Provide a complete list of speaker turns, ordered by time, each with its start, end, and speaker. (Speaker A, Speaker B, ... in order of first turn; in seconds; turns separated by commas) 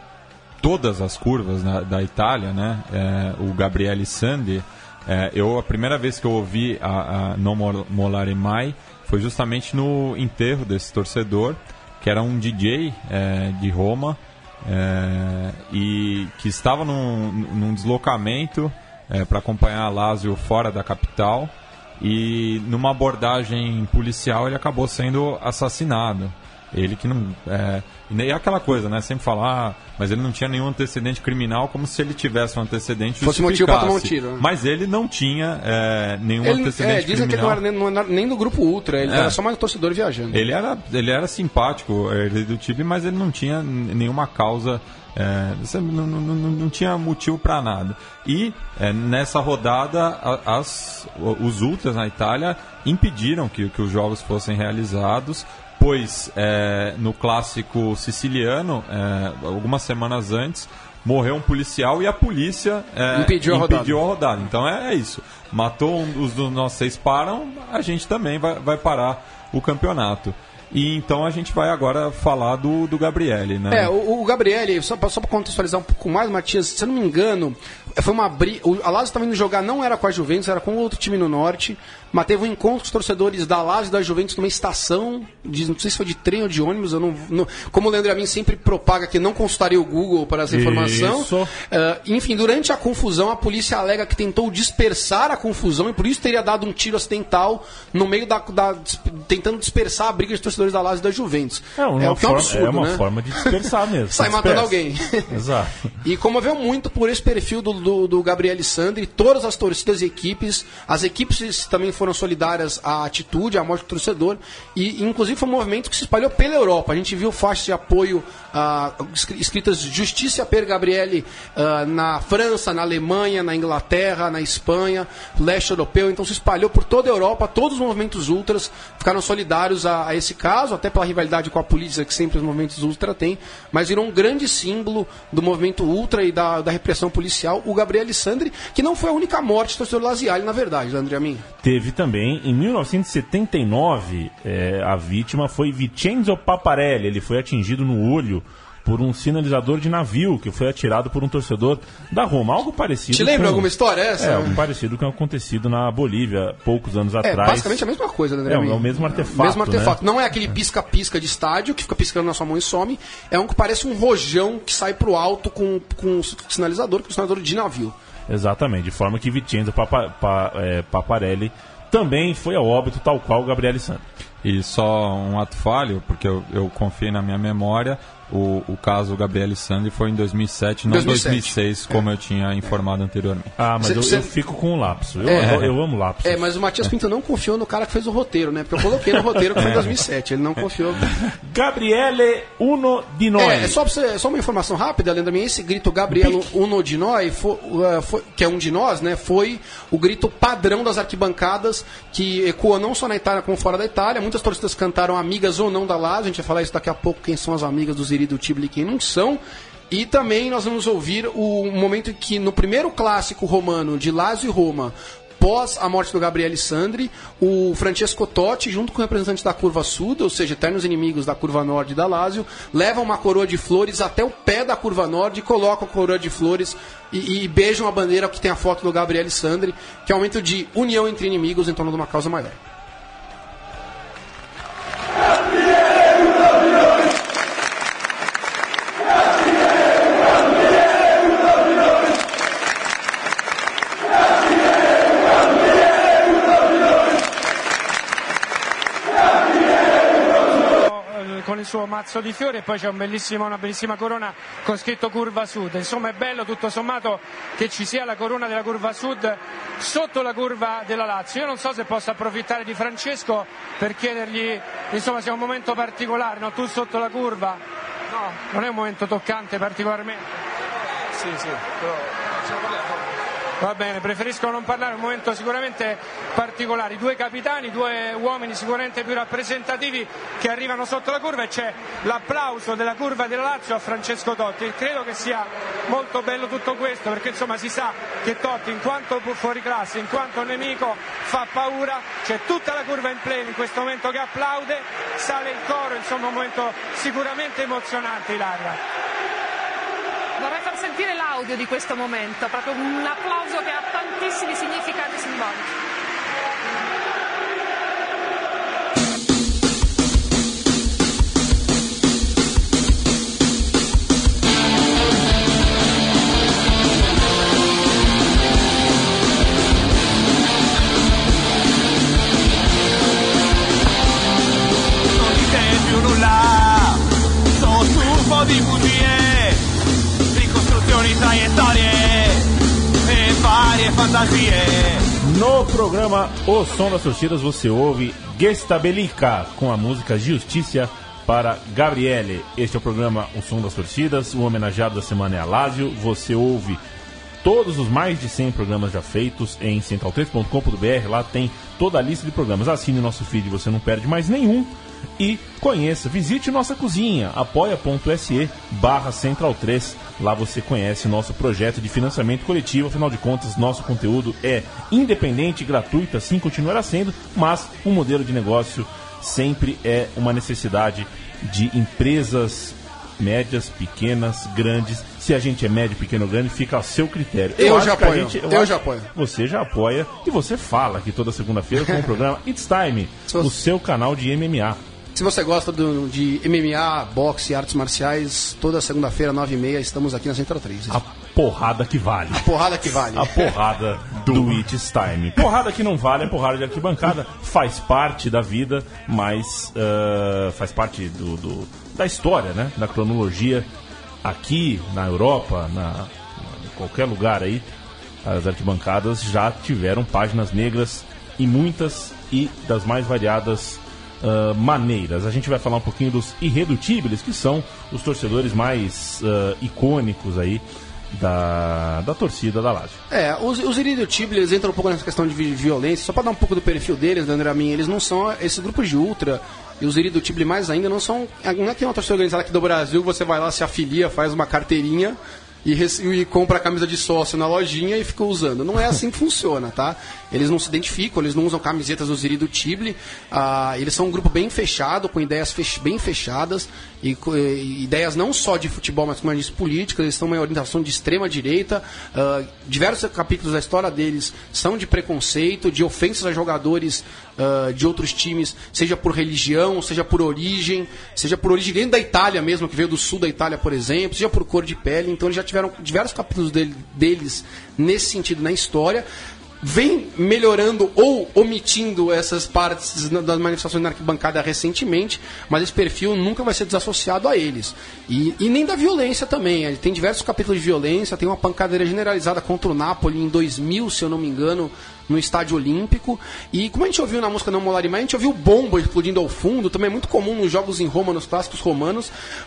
Speaker A: 0.6-37.6, Speaker B: 33.2-34.5, Speaker B: 36.4-40.4, Speaker A: 39.0-39.4, Speaker A: 40.3-73.9, Speaker B: 63.1-64.0, Speaker B: 73.7-105.3, Speaker C: 90.5-91.5, Speaker C: 101.8-105.9, Speaker B: 106.0-141.4, Speaker C: 141.6-157.8, Speaker B: 153.1-154.6, Speaker B: 157.2-167.9, Speaker C: 158.5-160.0, Speaker C: 168.3-174.1, Speaker A: 174.4-183.6, Speaker B: 180.9-182.0, Speaker C: 183.6-186.5, Speaker B: 183.8-184.3, Speaker B: 185.2-185.6, Speaker A: 185.4-185.7, Speaker B: 186.2-191.1, Speaker C: 191.2-193.8, Speaker B: 193.4-232.6, Speaker C: 196.1-196.5, Speaker D: 250.8-267.6, Speaker D: 268.1-270.2, Speaker D: 271.1-271.9, Speaker D: 273.6-298.8, Speaker E: 300.4-305.7, Speaker F: 325.1-327.0, Speaker F: 327.6-329.6, Speaker F: 330.3-332.5, Speaker F: 333.0-335.1, Speaker C: 335.2-346.8, Speaker C: 347.4-384.8, Speaker B: 377.6-379.1, Speaker B: 385.1-391.0, Speaker C: 390.9-403.7, Speaker B: 392.3-393.5, Speaker A: 394.2-394.6, Speaker C: 404.2-407.7, Speaker C: 408.2-423.0, Speaker B: 423.1-469.1, Speaker B: 469.6-492.1